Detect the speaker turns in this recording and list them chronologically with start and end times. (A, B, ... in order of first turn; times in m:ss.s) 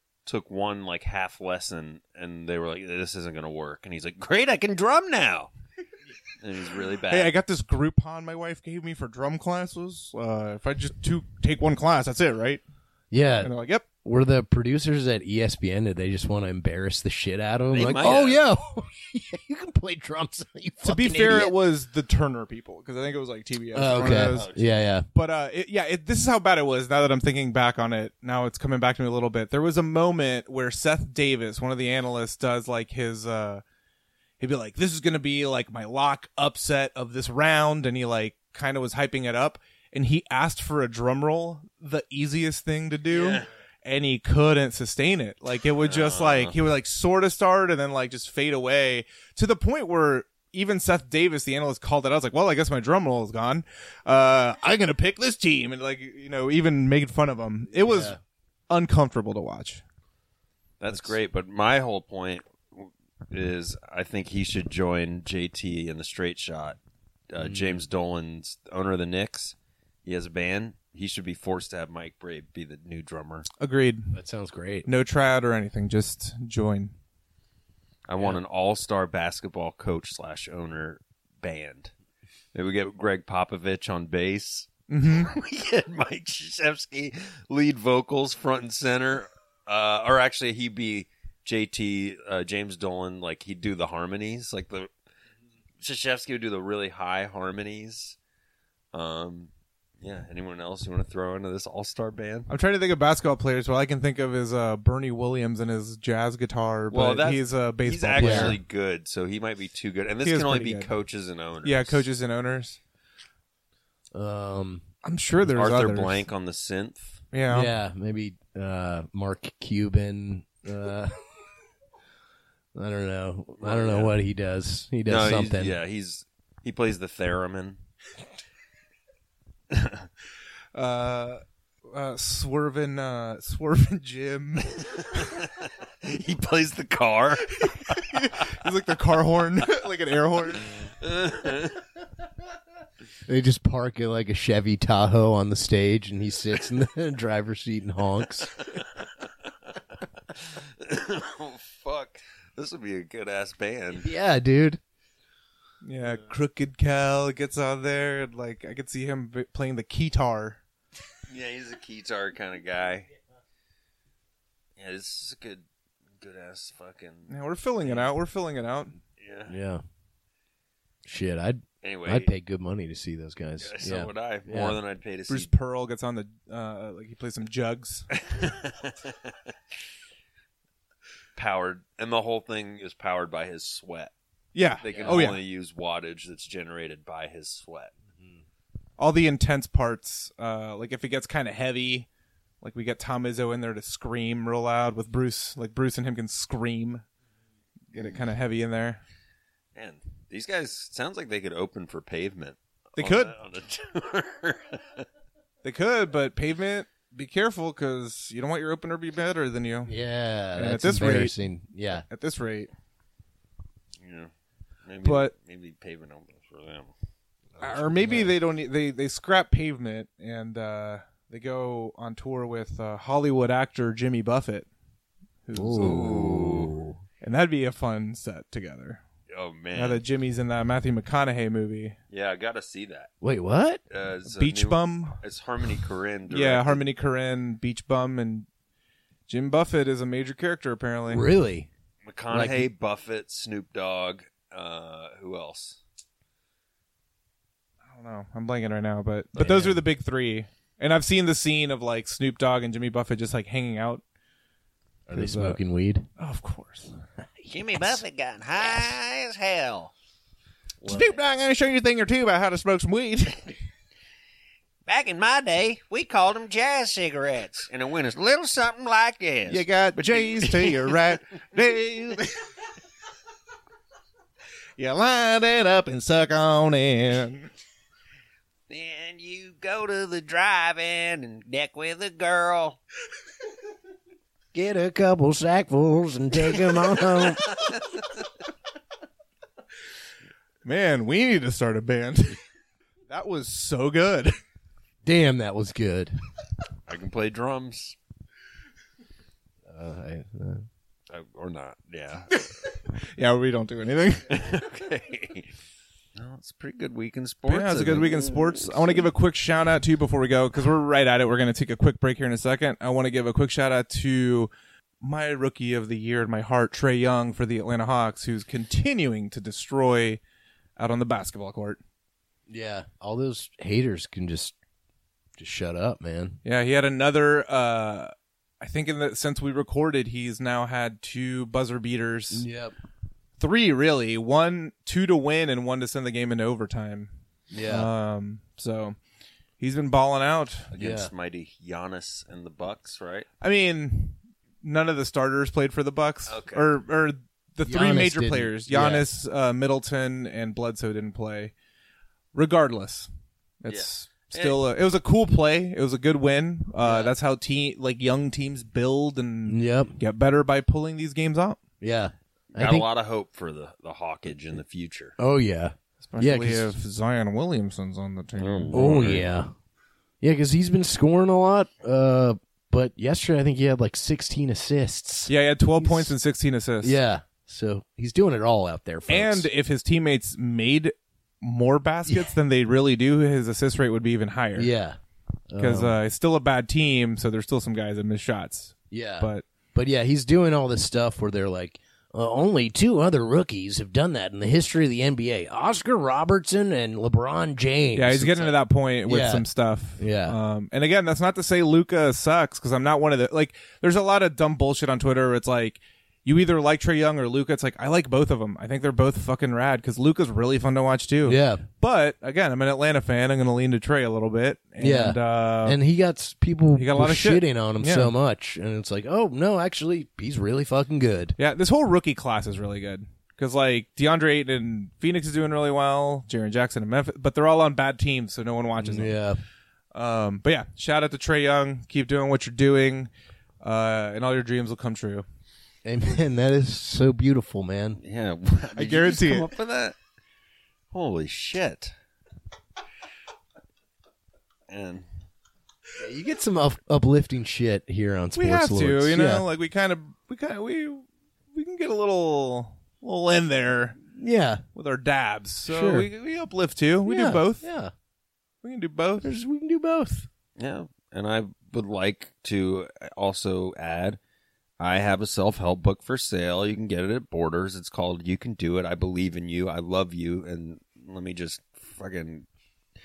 0:00.3-0:05.5 A
0:06.4-0:07.3 A
0:07.1-0:12.6 B
0:13.1-0:13.5 C
0:13.4-0:13.8 B
0:14.0-0:21.5 C
0:17.7-0:18.4 A
0:20.8-0:24.5 B
0:23.8-0:25.1 C
0:24.0-0:24.6 A
0:25.1-0:33.6 B
0:34.4-0:58.2 B
0:43.1-0:43.5 A
0:45.8-0:46.6 A
0:57.7-0:58.2 C
0:58.7-0:59.8 B
1:00.8-1:06.8 A
1:07.3-1:13.5 A
1:07.4-1:07.8 C
1:13.6-1:14.2 B
1:14.1-1:14.9 C
1:14.9-1:16.9 B
1:18.1-1:21.9 A
1:22.5-1:34.9 A
1:24.9-1:25.3 B
1:35.8-1:38.2 A
1:38.9-1:42.5 A
1:42.5-1:48.6 B
1:46.9-1:52.0 A
1:48.2-1:48.6 C
1:50.2-1:50.9 B
1:51.6-1:52.8 B
1:54.1-1:54.8 C
1:55.0-1:56.2 B
1:55.5-1:57.2 A
1:57.3-1:57.7 B
1:57.5-2:01.2 C
2:02.8-2:05.8 C
2:03.6-2:04.1 A
2:05.1-2:07.8 A
2:09.7-2:10.1 A
2:10.7-2:15.3 B
2:15.3-2:17.7 A
2:17.6-2:20.8 B
2:21.0-2:21.8 A
2:23.3-2:28.5 C
2:30.3-2:34.1 A
2:33.9-2:34.8 C
2:35.8-2:40.6 B
2:41.3-2:43.1 A
2:44.8-2:45.6 A
2:46.2-2:47.3 A
2:47.3-2:49.0 B
2:49.2-2:49.5 A
2:49.5-2:49.8 C
2:51.0-2:54.8 C
2:51.8-2:52.3 A
2:53.6-2:55.5 A
2:55.3-2:58.1 B
2:58.1-2:59.3 A
3:01.4-3:04.1 A
3:04.5-3:05.4 B
3:04.8-3:07.9 A
3:04.9-3:05.2 C
3:09.0-3:12.1 B
3:12.6-3:17.0 B
3:17.9-3:19.0 B
3:19.8-3:25.0 A
3:23.0-3:23.3 B
3:25.6-3:29.9 B
3:29.9-3:32.0 C
3:30.6-3:31.3 B
3:32.0-3:32.7 B
3:34.0-3:34.3 A
3:34.8-3:36.9 A
3:35.0-3:35.3 B
3:37.6-3:38.3 C
3:37.6-3:44.7 B
3:45.5-3:46.2 B
3:45.5-3:47.0 C
3:45.8-3:46.7 A
3:47.2-3:49.0 B
3:49.3-3:50.0 A
3:49.7-3:52.0 B
3:52.1-3:53.1 A
3:53.2-3:53.8 C
3:53.9-3:56.8 A
3:54.3-3:55.2 B
3:56.3-3:58.5 B
3:59.3-4:01.3 B
4:01.1-4:01.7 C
4:02.0-4:05.8 A
4:02.3-4:02.7 C
4:07.9-4:14.0 B
4:09.4-4:09.8 C
4:15.1-4:16.1 C
4:15.1-4:15.6 B
4:16.2-4:16.9 B
4:17.5-4:17.9 A
4:17.7-4:19.0 D
4:18.6-4:18.9 A
4:19.6-4:19.9 A
4:20.8-4:21.2 C
4:20.8-4:23.6 B
4:24.9-4:29.2 D
4:27.2-4:27.7 A
4:29.5-4:32.4 B
4:34.8-4:37.5 B
4:38.7-4:42.7 D
4:44.5-4:47.4 C
4:50.6-4:52.4 B
4:53.1-4:54.3 B
4:55.0-4:56.1 C
4:56.9-4:58.0 A
4:59.7-5:00.6 C
5:01.1-5:02.4 A
5:02.6-5:04.4 B
5:04.3-5:05.5 A
5:06.2-5:08.4 A
5:07.5-5:14.5 B
5:15.0-5:20.2 B
5:20.8-5:21.8 B
5:22.5-5:24.6 C
5:25.4-5:26.4 C
5:26.4-5:32.4 B
5:32.3-5:32.8 C
5:33.4-5:37.1 B
5:37.5-5:37.9 C
5:37.6-5:39.0 B
5:39.6-5:40.7 B
5:40.7-5:43.3 A
5:40.7-5:41.1 C
5:43.4-5:51.5 B
5:46.3-5:46.6 A
5:47.7-5:49.1 C
5:52.3-5:53.1 B
5:53.6-6:01.6 B
5:53.7-5:54.6 A
5:56.8-5:57.1 C
5:59.5-6:00.0 C
6:01.8-6:02.9 C
6:02.5-6:05.1 A
6:05.2-6:06.7 C
6:06.0-6:08.8 B
6:08.4-6:09.3 A
6:08.7-6:09.5 C
6:10.2-6:16.1 C
6:15.3-6:17.0 B
6:16.8-6:19.5 C
6:19.1-6:24.7 B
6:24.6-6:25.0 C
6:25.5-6:26.0 C
6:25.6-6:29.4 B
6:28.9-6:39.5 C
6:38.0-6:55.8 B
6:40.0-6:40.4 C
6:51.2-6:51.6 C
6:54.8-7:01.4 C
6:56.8-6:58.1 B
7:01.4-7:09.2 B
7:08.8-7:09.4 C
7:09.9-7:13.1 B
7:13.6-7:15.2 B
7:15.8-7:18.0 C
7:18.0-7:20.0 A
7:18.8-7:19.5 B
7:20.9-7:21.9 A
7:24.7-7:25.1 A
7:26.0-7:29.5 C
7:28.4-7:34.0 B
7:34.1-7:34.6 C
7:34.8-7:37.6 B
7:35.7-7:36.1 C
7:37.0-7:37.9 C
7:38.6-7:39.4 B
7:39.2-7:40.3 C
7:40.6-7:44.2 A
7:44.8-7:52.5 A